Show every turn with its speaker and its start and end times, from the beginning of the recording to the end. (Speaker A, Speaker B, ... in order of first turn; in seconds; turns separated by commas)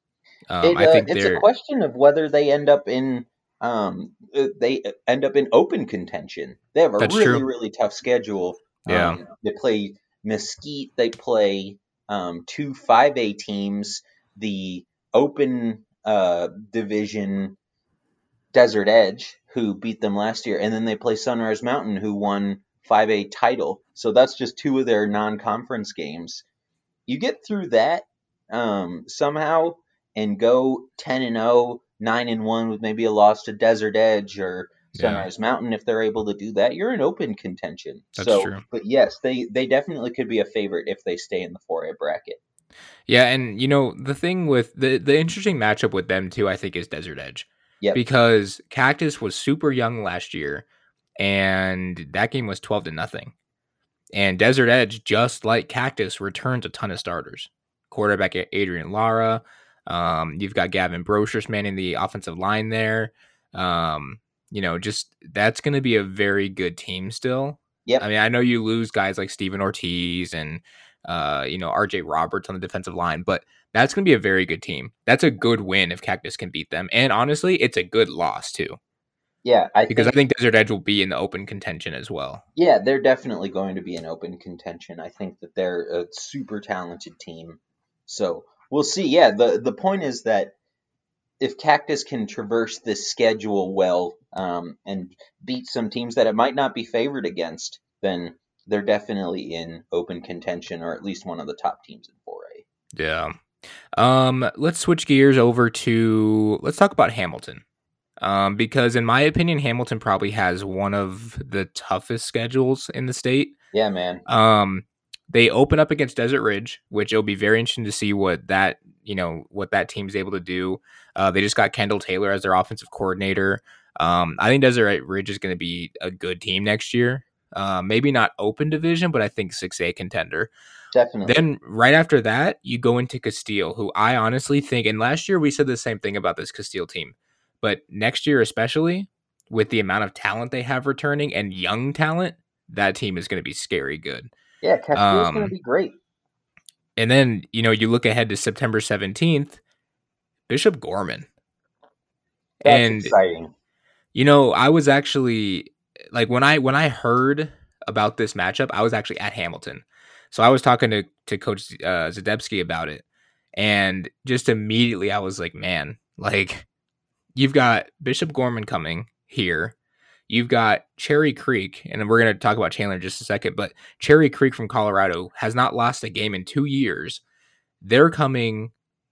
Speaker A: 0.5-1.4, Speaker B: 0.6-17.6, Speaker A: 7.0-7.5, Speaker A: 8.9-9.2, Speaker B: 18.5-26.4, Speaker B: 27.1-42.4, Speaker A: 34.9-35.3, Speaker A: 38.2-38.6, Speaker A: 43.1-50.6, Speaker A: 51.2-53.3, Speaker A: 54.1-78.8, Speaker B: 79.4-80.2, Speaker A: 79.9-82.4, Speaker B: 82.6-90.5, Speaker B: 91.4-102.6, Speaker A: 103.0-103.4, Speaker A: 104.0-107.6, Speaker A: 108.2-113.6, Speaker B: 113.7-114.2, Speaker A: 114.3-130.5, Speaker B: 130.9-131.4, Speaker A: 131.2-144.3, Speaker B: 144.6-146.0, Speaker A: 144.9-145.5, Speaker A: 147.0-149.6, Speaker A: 150.5-151.3, Speaker A: 152.6-153.1, Speaker B: 152.6-153.5, Speaker A: 154.1-163.0, Speaker A: 163.6-166.7, Speaker A: 167.3-169.8, Speaker A: 170.3-177.2, Speaker A: 177.8-178.7